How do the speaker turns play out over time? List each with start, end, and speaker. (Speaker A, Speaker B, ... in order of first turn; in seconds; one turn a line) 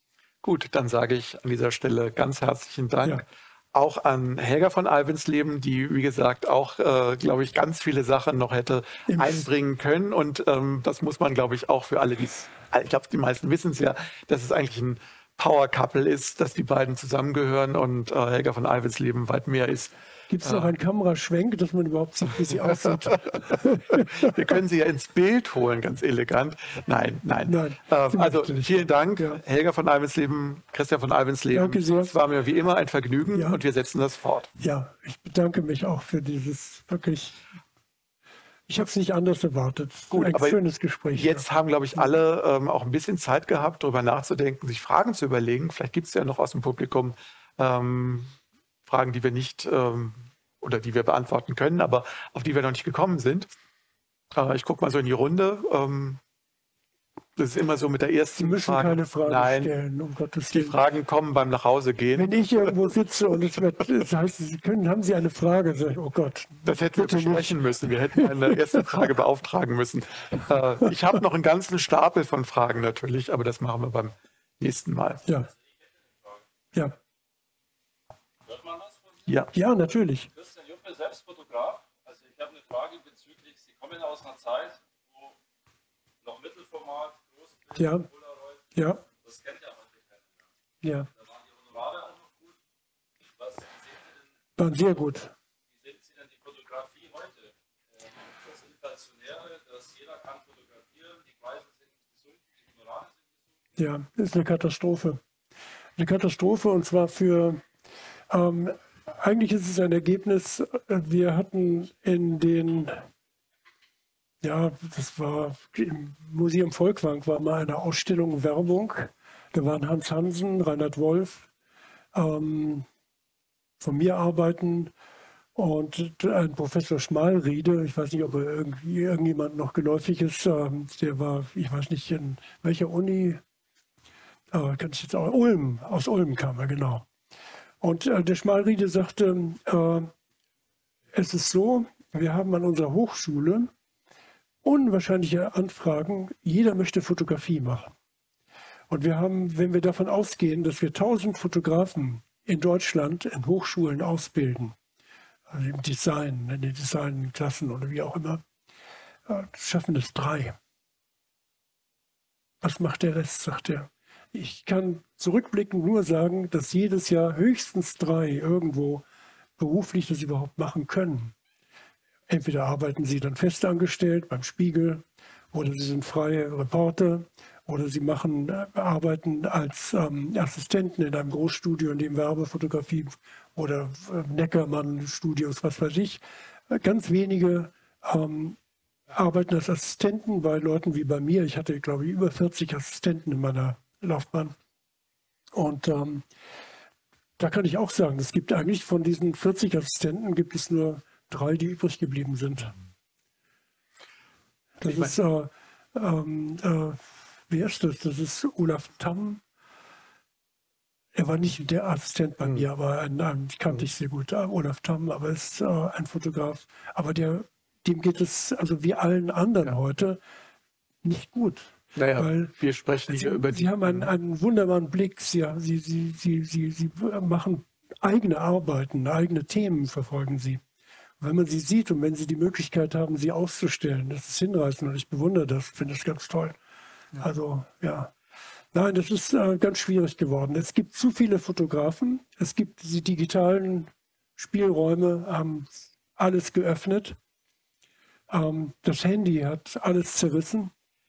Speaker A: 0.4-20.7
Speaker B: 9.1-9.5
Speaker B: 20.3-24.6
Speaker A: 23.3-34.5
Speaker B: 27.5-29.4
Speaker B: 31.5-32.2
Speaker B: 33.3-33.6
Speaker B: 34.6-37.5
Speaker B: 38.7-42.1
Speaker A: 40.1-40.6
Speaker A: 41.1-48.3
Speaker A: 48.9-53.5
Speaker A: 54.3-56.2
Speaker A: 57.4-59.7
Speaker B: 58.4-60.8
Speaker A: 60.5-62.7
Speaker B: 62.2-69.1
Speaker A: 66.6-75.3
Speaker C: 75.4-76.4
Speaker C: 78.5-79.3
Speaker B: 79.5-80.3
Speaker C: 80.3-85.4
Speaker C: 86.2-90.5
Speaker B: 87.8-88.1
Speaker B: 88.8-89.0
Speaker B: 90.8-91.1
Speaker C: 91.2-92.6
Speaker C: 93.4-94.3
Speaker B: 94.6-95.3
Speaker C: 95.7-103.5
Speaker B: 103.8-105.2
Speaker B: 106.0-107.6
Speaker B: 108.3-113.1
Speaker B: 114.4-121.5
Speaker B: 122.1-122.9
Speaker B: 123.8-124.9
Speaker B: 125.5-133.4
Speaker B: 134.5-137.1
Speaker B: 137.8-140.1
Speaker B: 141.1-143.7
Speaker B: 144.6-147.9
Speaker B: 148.9-154.8
Speaker B: 155.5-158.4
Speaker B: 159.3-160.6
Speaker B: 162.6-169.1
Speaker B: 169.6-171.3
Speaker B: 172.3-188.6
Speaker B: 189.1-194.6
Speaker B: 195.5-196.3
Speaker B: 197.4-202.8
Speaker B: 204.8-209.4
Speaker A: 204.9-205.2
Speaker B: 211.1-220.2
Speaker B: 221.0-222.5
Speaker A: 222.0-224.1
Speaker B: 223.1-230.6
Speaker B: 231.2-236.6
Speaker B: 237.2-238.1
Speaker B: 238.7-247.2
Speaker B: 248.3-250.7